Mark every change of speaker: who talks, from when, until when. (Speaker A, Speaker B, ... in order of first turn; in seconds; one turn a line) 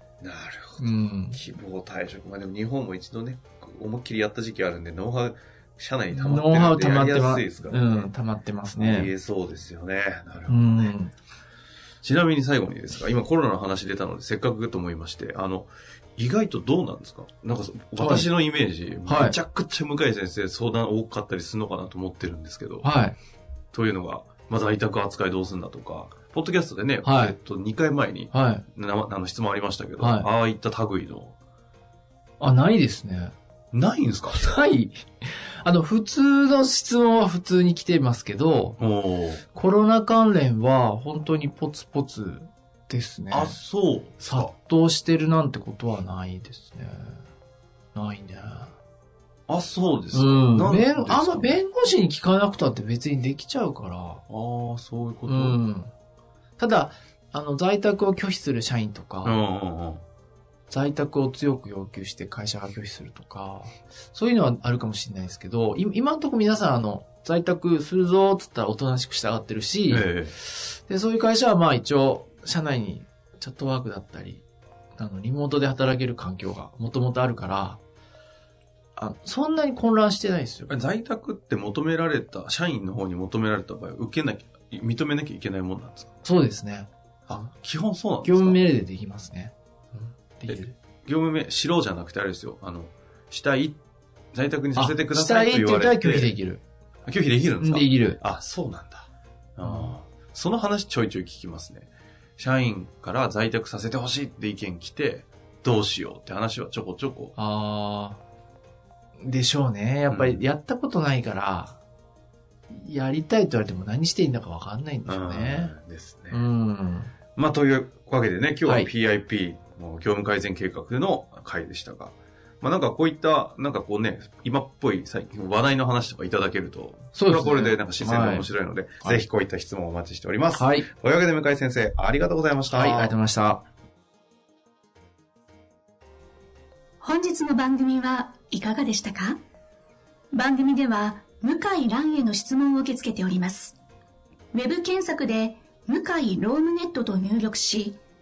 Speaker A: 0.2-8.1
Speaker B: 0.8-1.4
Speaker B: 6.1-9.1
Speaker A: 8.8-10.9
Speaker B: 10.5-11.1
Speaker A: 12.0-22.9
Speaker B: 18.0-18.3
Speaker B: 19.1-19.4
Speaker B: 22.8-23.2
Speaker A: 23.7-31.4
Speaker B: 27.0-27.4
Speaker B: 28.3-28.6
Speaker B: 30.0-30.3
Speaker B: 32.4-33.3
Speaker A: 33.7-34.5
Speaker B: 34.3-38.8
Speaker A: 38.8-39.4
Speaker B: 39.5-43.6
Speaker A: 43.3-44.5
Speaker B: 44.2-47.2
Speaker B: 47.9-48.8
Speaker A: 49.5-51.6
Speaker B: 50.1-54.2
Speaker A: 54.3-55.6
Speaker B: 55.3-55.9
Speaker B: 56.6-59.4
Speaker A: 59.2-60.0
Speaker B: 60.7-74.4
Speaker A: 69.9-70.4
Speaker B: 75.0-77.8
Speaker B: 79.0-80.7
Speaker A: 80.7-86.1
Speaker B: 86.2-86.9
Speaker A: 87.3-88.7
Speaker B: 88.2-90.8
Speaker A: 90.5-93.8
Speaker A: 94.3-96.3
Speaker B: 94.7-96.6
Speaker A: 97.1-107.3
Speaker B: 97.6-98.2
Speaker B: 99.6-100.0
Speaker B: 107.4-108.2
Speaker B: 109.2-111.8
Speaker A: 110.1-110.4
Speaker B: 112.7-115.8
Speaker A: 115.0-116.5
Speaker B: 116.3-117.1
Speaker A: 117.4-133.2
Speaker B: 118.7-118.9
Speaker B: 127.2-128.5
Speaker B: 130.5-130.9
Speaker B: 132.7-133.6
Speaker C: 137.0-139.4
Speaker C: 140.3-143.8
Speaker C: 144.5-148.0